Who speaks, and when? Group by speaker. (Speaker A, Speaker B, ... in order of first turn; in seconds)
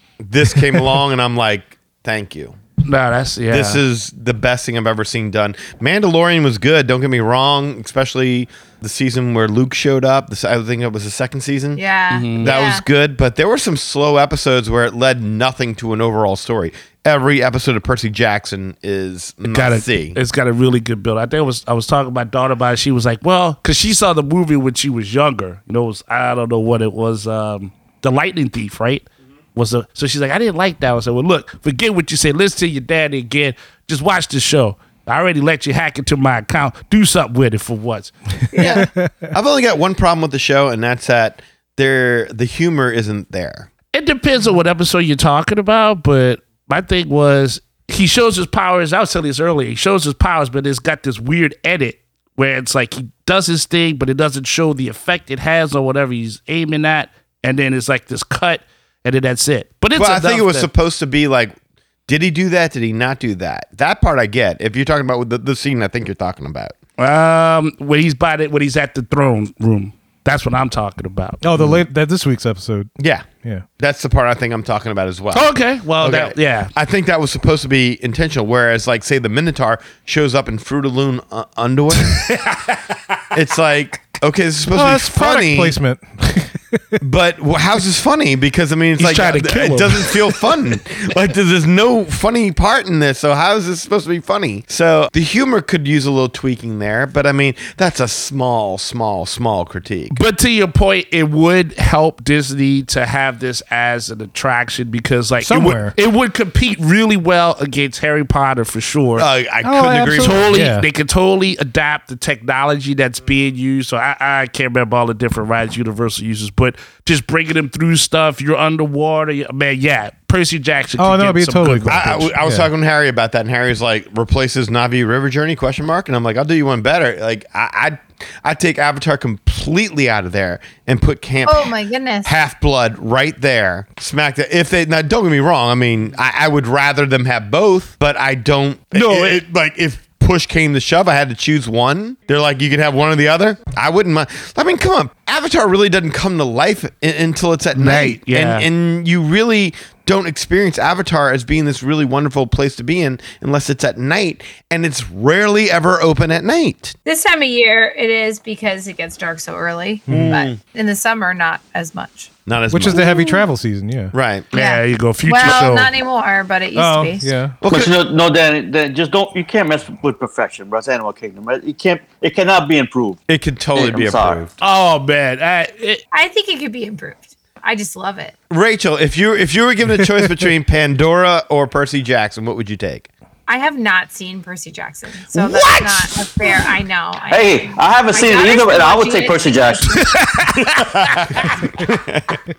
Speaker A: 0.2-2.5, 3.5-11.8, 12.4-20.2, 38.6-43.7, 60.0-61.5, 62.1-66.7, 71.5-71.8, 73.0-73.3, 73.8-82.3, 83.3-85.8, 87.0-100.2, 109.2-110.5, 121.9-131.7, 132.2-156.9, 160.1-160.6, 162.5-163.3, 164.1-164.5, 167.6-167.9, 173.3-174.5, 178.5-183.1, 190.5-192.4
Speaker B: 2.8-3.8, 12.1-12.5, 19.4-38.1, 43.9-60.7, 67.0-71.4, 75.3-76.7, 82.1-82.8, 89.0-90.5, 100.1-109.3, 110.2-122.3, 138.9-139.4, 147.7-148.7, 164.5-165.9, 174.6-176.0, 185.3-186.7, 190.0-191.5
Speaker C: 11.8-12.8, 38.5-38.8, 131.4-132.3, 157.1-162.3, 164.5-167.3, 176.1-178.3, 183.5-190.2
Speaker D: 38.5-39.3, 71.4-72.9, 84.7-87.0, 105.4-105.9, 109.6-110.8, 121.0-122.7, 160.1-160.4, 162.7-164.1, 166.8-167.6
Speaker E: 167.7-173.2, 173.7-174.4, 187.3-189.9